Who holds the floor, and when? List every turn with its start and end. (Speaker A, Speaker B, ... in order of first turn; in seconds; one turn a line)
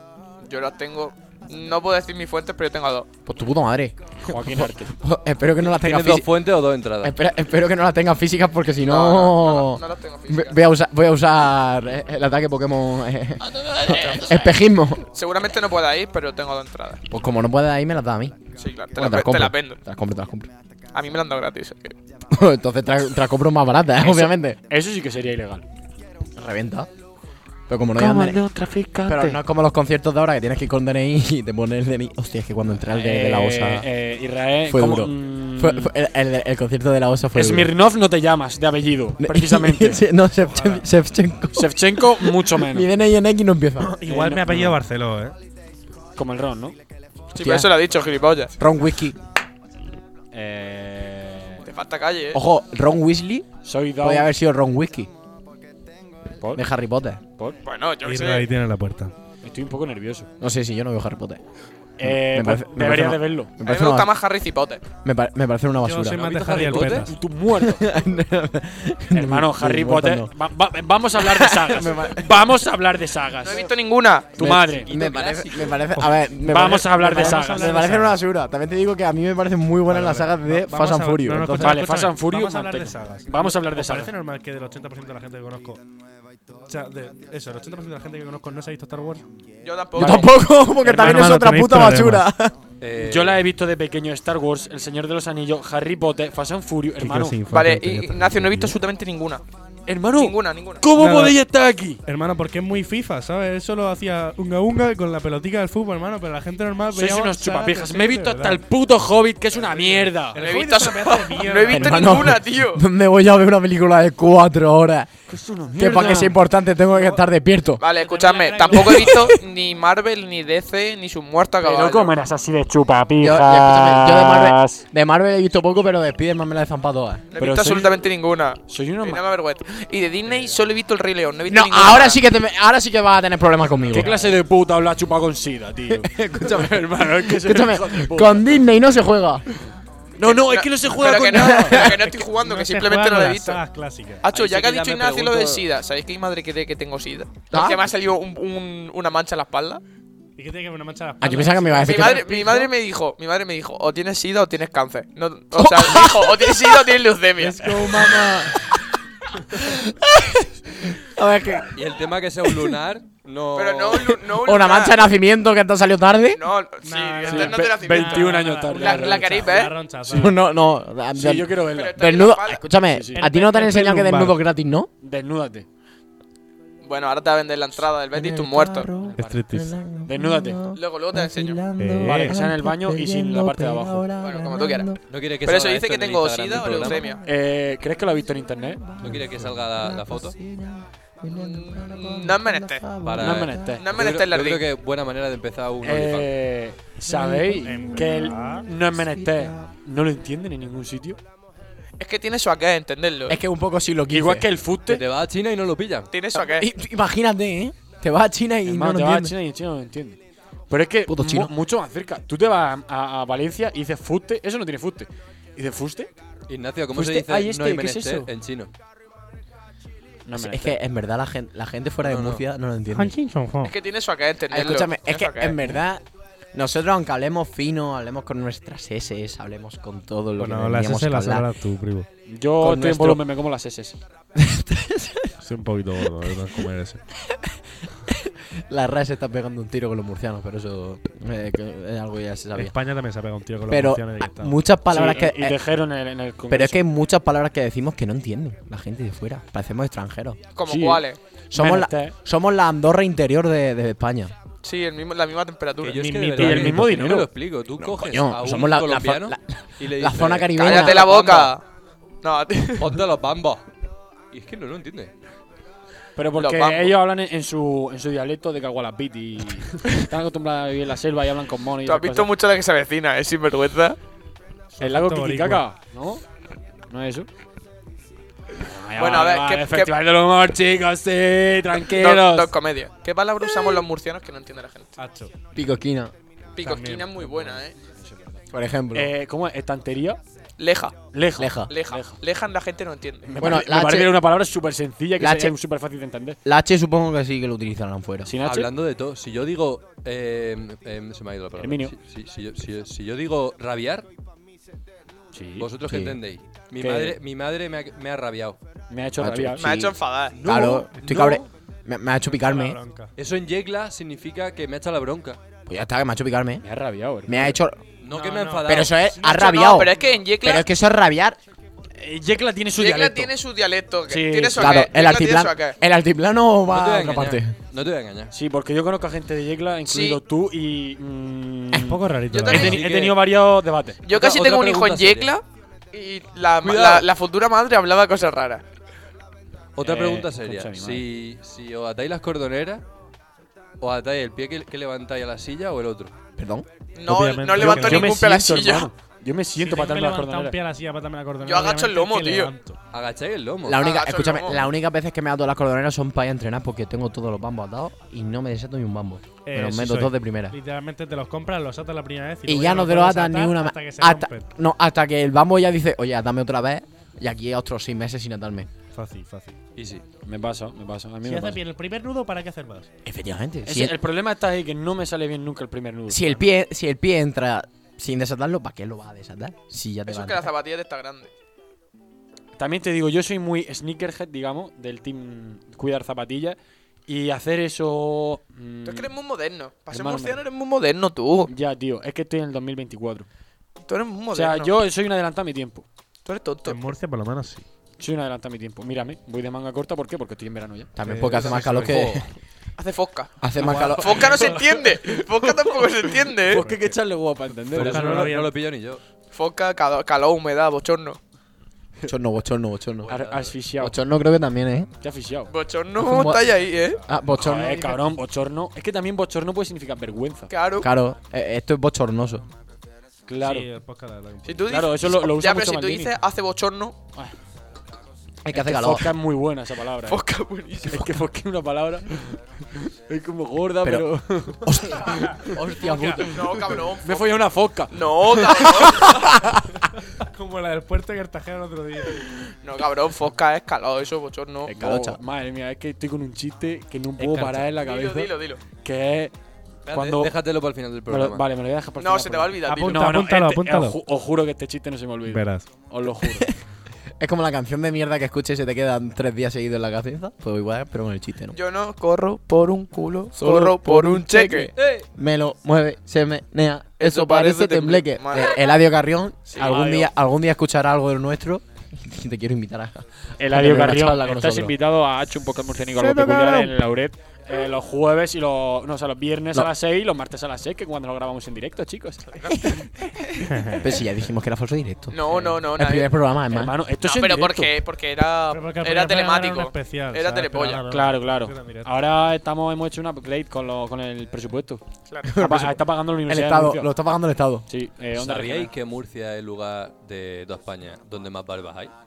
Speaker A: 0.4-3.1
Speaker B: 3.2-6.3
Speaker C: 4.2-4.9
Speaker D: 5.7-7.2
Speaker B: 7.0-15.1
Speaker A: 8.8-10.6
Speaker A: 13.5-14.5
Speaker A: 15.1-17.0
Speaker B: 17.1-18.4
Speaker A: 18.6-19.8
Speaker B: 18.9-20.5
Speaker A: 20.9-21.9
Speaker B: 22.3-24.6
Speaker C: 24.0-25.6
Speaker B: 26.4-26.9
Speaker B: 27.7-28.4
Speaker C: 28.0-29.1
Speaker B: 29.0-33.9
Speaker C: 32.8-35.9
Speaker B: 34.7-37.7
Speaker C: 37.3-40.0
Speaker B: 39.2-43.9
Speaker E: 40.4-40.8
Speaker C: 41.5-42.9
Speaker E: 43.9-45.3
Speaker C: 44.0-44.8
Speaker C: 46.1-46.8
Speaker A: 47.3-48.5
Speaker B: 47.4-47.7
Speaker B: 48.6-49.2
Speaker C: 50.3-51.6
Speaker A: 51.6-52.4
Speaker B: 52.3-53.5
Speaker C: 53.6-54.3
Speaker B: 54.0-55.1
Speaker B: 56.5-57.2
Speaker A: 57.6-58.5
Speaker E: 58.0-59.1
Speaker C: 59.4-60.3
Speaker B: 60.4-61.4
Speaker C: 62.0-63.5
Speaker B: 62.0-64.1
Speaker A: 63.6-64.8
Speaker B: 65.0-66.2
Speaker E: 65.8-67.1
Speaker D: 66.1-67.1
Speaker C: 66.7-67.9
Speaker B: 67.5-70.3
Speaker C: 69.1-73.7
Speaker B: 71.2-72.4
Speaker A: 73.4-74.4
Speaker C: 74.4-74.9
Speaker B: 74.4-81.8
Speaker D: 74.8-75.8
Speaker C: 76.4-78.0
Speaker E: 76.9-78.2
Speaker E: 79.9-85.8
Speaker C: 81.6-84.1
Speaker E: 86.7-89.2
Speaker A: 89.6-90.3
Speaker B: 90.0-92.5
Speaker C: 90.0-91.4
Speaker E: 91.0-92.3
Speaker D: 92.8-93.4
Speaker C: 93.0-97.4
Speaker E: 97.0-98.7
Speaker A: 97.5-99.4
Speaker C: 99.9-102.0
Speaker A: 100.1-100.8
Speaker E: 101.0-101.4
Speaker E: 102.0-108.6
Speaker C: 106.9-110.5
Speaker E: 109.5-112.2
Speaker A: 110.4-112.8
Speaker B: 111.6-115.1
Speaker C: 115.3-116.4
Speaker B: 115.7-117.8
Speaker E: 116.9-117.2
Speaker A: 117.8-122.1
Speaker E: 117.9-119.3
Speaker B: 118.7-119.4
Speaker C: 121.6-124.8
Speaker B: 123.2-127.2
Speaker A: 127.3-132.2
Speaker C: 127.4-128.0
Speaker C: 128.7-129.2
Speaker B: 131.5-134.2
Speaker E: 133.7-134.4
Speaker C: 133.9-138.6
Speaker B: 135.9-139.4
Speaker C: 140.2-142.0
Speaker A: 140.2-143.6
Speaker B: 141.2-142.0
Speaker E: 141.8-144.2
Speaker A: 144.2-149.8
Speaker D: 144.3-145.7
Speaker B: 147.5-147.8
Speaker E: 150.4-152.7
Speaker B: 151.2-152.6
Speaker A: 151.8-157.8
Speaker B: 155.5-156.7
Speaker E: 157.4-158.3
Speaker B: 157.5-158.8
Speaker B: 159.5-161.8
Speaker D: 161.7-164.2
Speaker B: 162.4-162.8
Speaker A: 163.5-165.0
Speaker B: 164.3-166.4
Speaker A: 166.3-169.7
Speaker E: 166.8-170.4
Speaker C: 167.2-170.3
Speaker B: 170.1-174.9
Speaker C: 171.1-172.0
Speaker A: 171.7-172.6
Speaker C: 172.9-173.4
Speaker E: 173.2-174.4
Speaker C: 175.0-175.7
Speaker A: 176.8-178.9
Speaker B: 178.1-185.0
Speaker C: 179.0-179.4
Speaker E: 179.2-179.7
Speaker C: 180.0-180.6
Speaker A: 180.7-181.6
Speaker E: 181.8-182.4
Speaker C: 182.0-184.1
Speaker A: 184.2-184.9
Speaker D: 185.1-187.0
Speaker A: 185.4-187.2
Speaker B: 186.6-187.3
Speaker C: 187.2-188.9
Speaker B: 188.8-193.8
Speaker D: 189.0-190.3
Speaker A: 191.3-192.9
Speaker D: 193.0-196.3
Speaker C: 193.2-193.9
Speaker A: 193.8-194.7
Speaker C: 195.8-201.2
Speaker B: 197.0-199.7
Speaker E: 197.5-198.7
Speaker A: 202.0-203.4
Speaker B: 203.3-204.5
Speaker C: 204.1-205.0
Speaker D: 204.9-206.1
Speaker A: 206.1-206.7
Speaker B: 206.3-209.3
Speaker C: 208.6-210.2
Speaker C: 210.7-216.1
Speaker B: 211.1-211.5
Speaker D: 216.5-218.7
Speaker C: 216.9-218.3
Speaker C: 220.2-220.8
Speaker B: 220.3-223.1
Speaker D: 222.0-222.4
Speaker E: 222.9-223.7
Speaker A: 223.6-225.6
Speaker B: 224.5-226.0
Speaker B: 226.5-231.5
Speaker E: 230.4-232.1
Speaker C: 232.3-234.0
Speaker B: 232.6-233.2
Speaker B: 234.3-235.3
Speaker E: 235.4-237.0
Speaker B: 237.2-242.7
Speaker E: 242.5-244.6
Speaker B: 243.7-245.6
Speaker C: 244.9-246.8
Speaker B: 246.5-250.4
Speaker A: 250.5-251.2
Speaker C: 250.7-252.1
Speaker B: 251.5-254.3
Speaker A: 254.6-256.1
Speaker D: 255.8-261.5
Speaker E: 255.9-256.9
Speaker C: 256.4-257.3
Speaker B: 257.8-261.1
Speaker A: 260.5-261.6
Speaker A: 262.2-263.0
Speaker D: 262.8-263.6
Speaker D: 264.3-265.1
Speaker C: 266.1-272.3
Speaker A: 266.4-266.9
Speaker A: 271.8-274.0
Speaker E: 274.7-275.6
Speaker C: 274.8-276.2
Speaker C: 276.9-277.3
Speaker C: 278.6-282.5
Speaker A: 279.0-279.9
Speaker A: 281.8-284.9
Speaker E: 285.0-285.3
Speaker B: 285.5-286.1
Speaker A: 286.6-287.7
Speaker E: 286.6-287.6
Speaker C: 287.8-288.4
Speaker B: 288.5-289.1
Speaker C: 288.9-290.2
Speaker A: 290.6-290.9
Speaker C: 291.1-292.2
Speaker B: 291.4-291.7
Speaker A: 291.7-293.3
Speaker C: 293.2-296.4
Speaker B: 293.4-294.2
Speaker B: 295.2-295.5
Speaker B: 296.4-298.3
Speaker C: 298.2-298.7
Speaker D: 298.4-304.1
Speaker C: 301.6-301.9
Speaker C: 305.3-305.7
Speaker D: 305.6-308.6
Speaker B: 305.9-306.2
Speaker C: 306.8-307.2
Speaker C: 308.9-309.6
Speaker B: 309.2-312.8
Speaker A: 309.6-310.4
Speaker D: 310.6-311.4
Speaker E: 312.2-313.1
Speaker D: 313.2-315.4
Speaker B: 315.6-316.6
Speaker C: 316.6-317.6
Speaker B: 317.2-317.8
Speaker D: 318.0-319.1
Speaker E: 318.1-319.5
Speaker B: 318.6-321.4
Speaker A: 319.2-320.7
Speaker C: 322.0-323.3
Speaker A: 322.8-325.8
Speaker C: 324.1-324.9
Speaker B: 324.6-327.5
Speaker D: 326.7-328.3
Speaker C: 328.3-334.0
Speaker A: 329.9-330.2
Speaker E: 331.7-332.8
Speaker A: 332.3-333.0
Speaker D: 332.7-333.1
Speaker A: 334.0-338.6
Speaker D: 334.1-335.3
Speaker D: 336.6-337.1
Speaker D: 339.8-342.8
Speaker C: 339.8-341.0
Speaker D: 343.8-346.1
Speaker B: 346.4-346.7
Speaker A: 346.9-348.9
Speaker E: 347.1-348.2
Speaker C: 347.6-350.6
Speaker E: 349.6-352.8
Speaker A: 351.4-352.5
Speaker D: 352.9-353.8
Speaker B: 353.6-360.5
Speaker A: 353.7-354.6
Speaker E: 359.4-364.5
Speaker B: 362.5-368.7
Speaker E: 368.9-369.6
Speaker D: 369.8-370.0
Speaker C: 370.2-371.6
Speaker E: 371.2-372.9
Speaker B: 373.0-373.9
Speaker C: 373.6-376.4
Speaker B: 376.1-380.5
Speaker A: 380.1-381.3
Speaker C: 382.6-389.1
Speaker A: 388.8-391.5
Speaker C: 389.9-390.4
Speaker C: 391.5-393.3
Speaker A: 393.9-394.7
Speaker C: 394.3-395.8
Speaker A: 396.2-396.8
Speaker E: 396.6-397.6
Speaker C: 398.0-400.9
Speaker B: 400.9-402.3
Speaker E: 401.1-402.1
Speaker D: 401.3-402.2
Speaker A: 402.8-403.3
Speaker B: 403.4-404.4
Speaker C: 403.6-408.4
Speaker A: 403.9-406.6
Speaker E: 406.6-406.9
Speaker D: 407.7-409.0
Speaker E: 407.7-408.6
Speaker A: 409.3-411.2
Speaker B: 412.1-413.1
Speaker D: 413.0-413.6
Speaker C: 413.1-414.0
Speaker B: 413.8-414.9
Speaker C: 415.0-415.5
Speaker A: 415.5-417.0
Speaker B: 416.0-416.5
Speaker B: 417.0-418.0
Speaker C: 417.3-420.5
Speaker A: 420.5-420.9
Speaker B: 420.8-422.4
Speaker C: 423.3-423.7
Speaker E: 423.4-424.7
Speaker A: 424.4-427.0
Speaker C: 424.7-426.1
Speaker B: 428.4-429.1
Speaker C: 428.5-430.2
Speaker A: 430.1-431.1
Speaker C: 430.9-435.6
Speaker B: 433.8-436.4
Speaker E: 435.8-436.2
Speaker A: 436.2-437.4
Speaker C: 437.0-438.9
Speaker A: 437.9-439.4
Speaker B: 439.0-439.6
Speaker E: 440.1-442.2
Speaker A: 442.6-444.8
Speaker B: 444.6-445.2
Speaker C: 444.7-449.3
Speaker A: 447.6-448.6
Speaker D: 449.9-451.4
Speaker C: 449.9-450.3
Speaker C: 451.1-456.6
Speaker A: 452.0-453.2
Speaker E: 452.6-454.0
Speaker E: 455.3-455.6
Speaker B: 457.2-461.6
Speaker A: 461.5-464.7
Speaker B: 463.3-474.7
Speaker D: 464.7-465.1
Speaker A: 467.0-468.6
Speaker A: 469.5-470.0
Speaker C: 469.6-470.1
Speaker C: 473.4-482.4
Speaker E: 475.9-476.8
Speaker B: 482.5-485.2
Speaker E: 483.4-483.8
Speaker A: 485.1-486.1
Speaker C: 485.3-485.7
Speaker B: 485.7-486.7
Speaker C: 486.5-487.7
Speaker A: 487.0-490.8
Speaker E: 488.5-491.9
Speaker C: 490.9-494.8
Speaker B: 495.2-497.6
Speaker C: 495.4-496.9
Speaker C: 497.7-498.7
Speaker D: 498.1-501.9